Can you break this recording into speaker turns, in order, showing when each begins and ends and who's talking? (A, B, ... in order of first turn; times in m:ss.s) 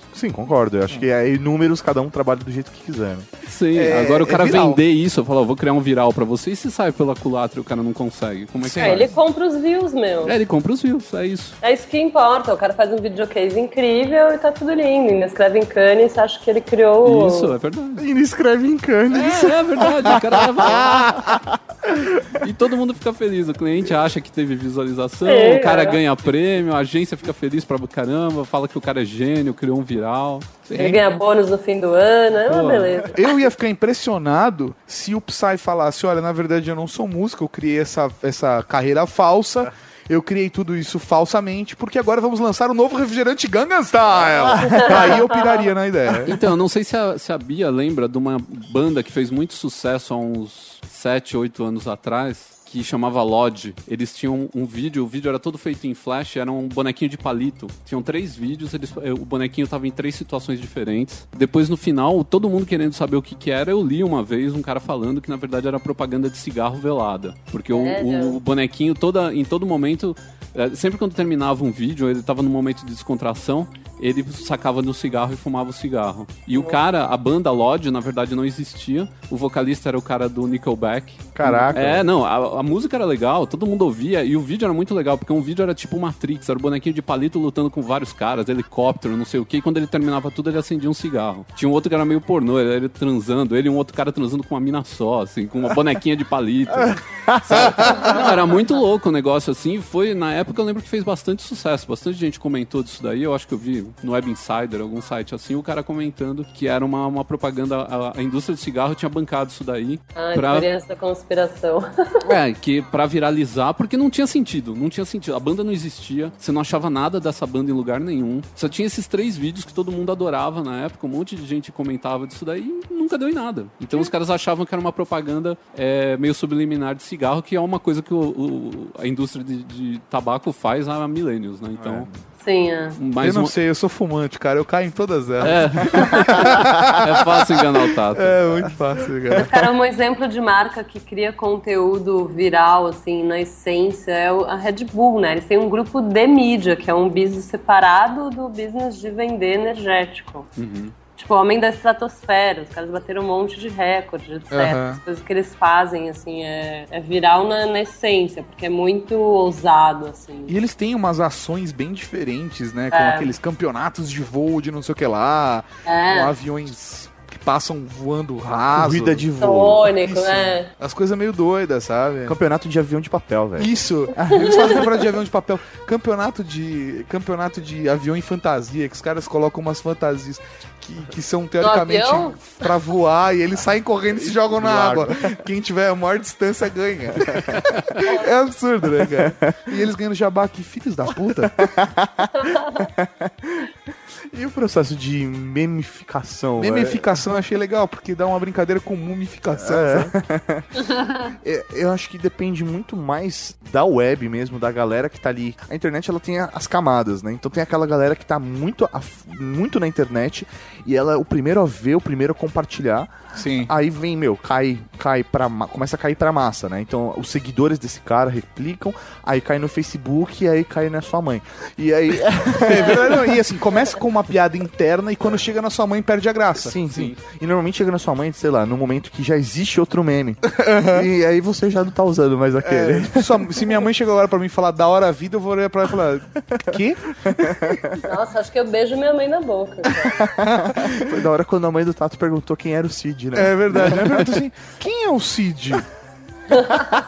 0:00.1-0:03.3 A
0:03.4-0:09.1 B
0:03.7-0:04.8 C
0:08.6-0:09.0 C
0:08.8-0:10.3 D
0:10.2-0:11.6 B
0:11.6-0:17.5 D
0:17.0-0:18.0 B
0:18.0-0:22.2 A
0:19.1-0:21.3 B
0:22.4-0:30.7 B
0:25.2-0:26.0 D
0:30.7-0:31.0 C
0:30.7-0:33.2 D
0:32.4-0:33.0 B
0:33.2-0:46.3 C
0:44.7-0:45.1 D
0:46.2-1:50.7 B
1:07.7-1:08.4 D
1:21.3-1:22.0 A
1:37.3-1:38.1 A
1:50.1-1:52.2 D
1:52.2-2:12.1 B
2:11.8-2:12.1 C
2:12.4-2:13.0 D
2:13.0-2:13.5 B
2:13.2-2:17.2 C
2:15.4-2:18.4 B
2:18.1-2:19.5 C
2:19.3-2:30.5 D
2:30.6-2:30.9 B
2:31.2-2:40.6 D
2:34.5-2:35.0 C
2:40.5-2:49.3 C
2:42.9-2:43.3 D
2:45.8-2:46.3 D
2:48.7-2:50.0 A
2:49.4-2:50.7 D
2:50.0-2:52.3 C
2:52.2-2:55.0 A
2:53.6-3:11.7 C
2:54.4-2:54.7 D
3:01.6-3:02.4 D
3:04.4-3:05.4 A
3:09.1-3:09.7 A
3:11.4-3:13.7 A
3:12.3-3:12.9 D
3:14.3-3:17.2 A
3:16.6-3:20.1 C
3:19.6-3:43.4 A
3:33.3-3:33.7 C
3:42.5-3:47.1 C
3:46.5-3:53.6 A
3:50.5-3:51.0 C
3:52.6-3:57.5 C
3:57.3-3:57.9 A
3:58.0-4:00.2 D
4:00.2-4:04.4 A
4:00.4-4:01.1 C
4:03.3-4:05.8 C
4:06.5-4:07.0 D